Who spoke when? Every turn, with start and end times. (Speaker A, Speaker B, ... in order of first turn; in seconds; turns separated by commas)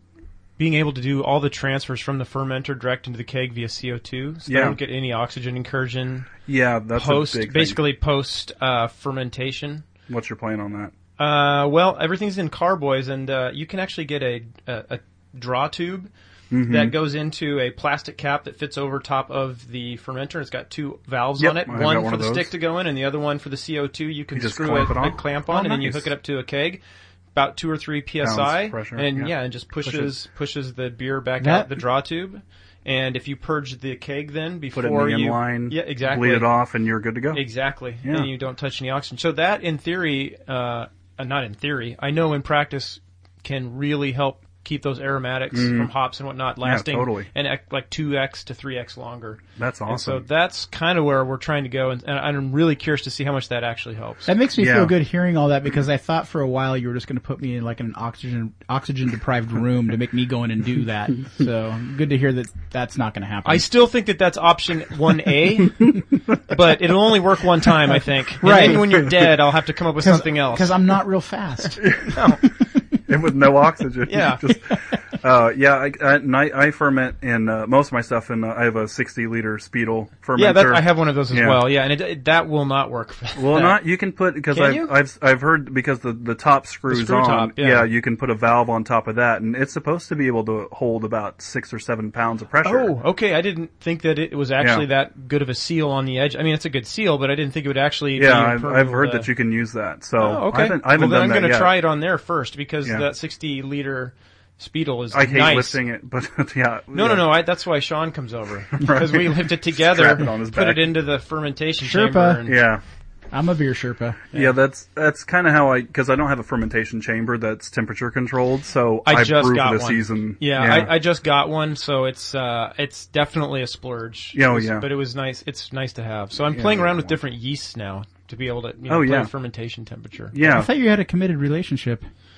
Speaker A: 0.6-6.3, Speaker B: 4.5-4.8, Speaker B: 6.5-7.8, Speaker A: 7.0-9.8, Speaker B: 10.1-10.9, Speaker A: 11.2-16.1, Speaker B: 16.5-16.9, Speaker A: 16.6-26.8, Speaker B: 21.4-22.5, Speaker B: 24.3-26.1, Speaker A: 27.3-36.5, Speaker B: 28.2-30.1, Speaker C: 31.4-31.7, Speaker B: 34.7-37.4, Speaker A: 37.3-54.3, Speaker B: 38.0-38.3, Speaker B: 45.5-45.9, Speaker B: 46.6-47.3, Speaker B: 49.6-50.2, Speaker C: 54.2-63.6, Speaker B: 54.6-54.9, Speaker A: 63.4-70.7, Speaker C: 68.4-69.1, Speaker C: 70.0-71.9, Speaker B: 71.8-72.2, Speaker A: 72.1-72.4, Speaker B: 73.1-81.6, Speaker A: 74.0-74.4, Speaker A: 80.3-83.8, Speaker B: 83.3-92.9, Speaker A: 84.5-84.9, Speaker A: 86.9-87.9, Speaker A: 92.6-99.3, Speaker B: 94.6-94.8, Speaker B: 98.2-101.7, Speaker A: 100.2-105.8, Speaker B: 105.1-107.2, Speaker A: 106.9-112.6, Speaker B: 108.8-110.9, Speaker C: 111.8-112.4, Speaker B: 112.4-112.8, Speaker C: 113.3-114.2, Speaker B: 114.3-120.9, Speaker A: 119.0-130.3, Speaker B: 124.3-124.9, Speaker B: 126.5-127.2, Speaker B: 128.9-129.3, Speaker B: 130.3-130.7, Speaker C: 130.4-132.1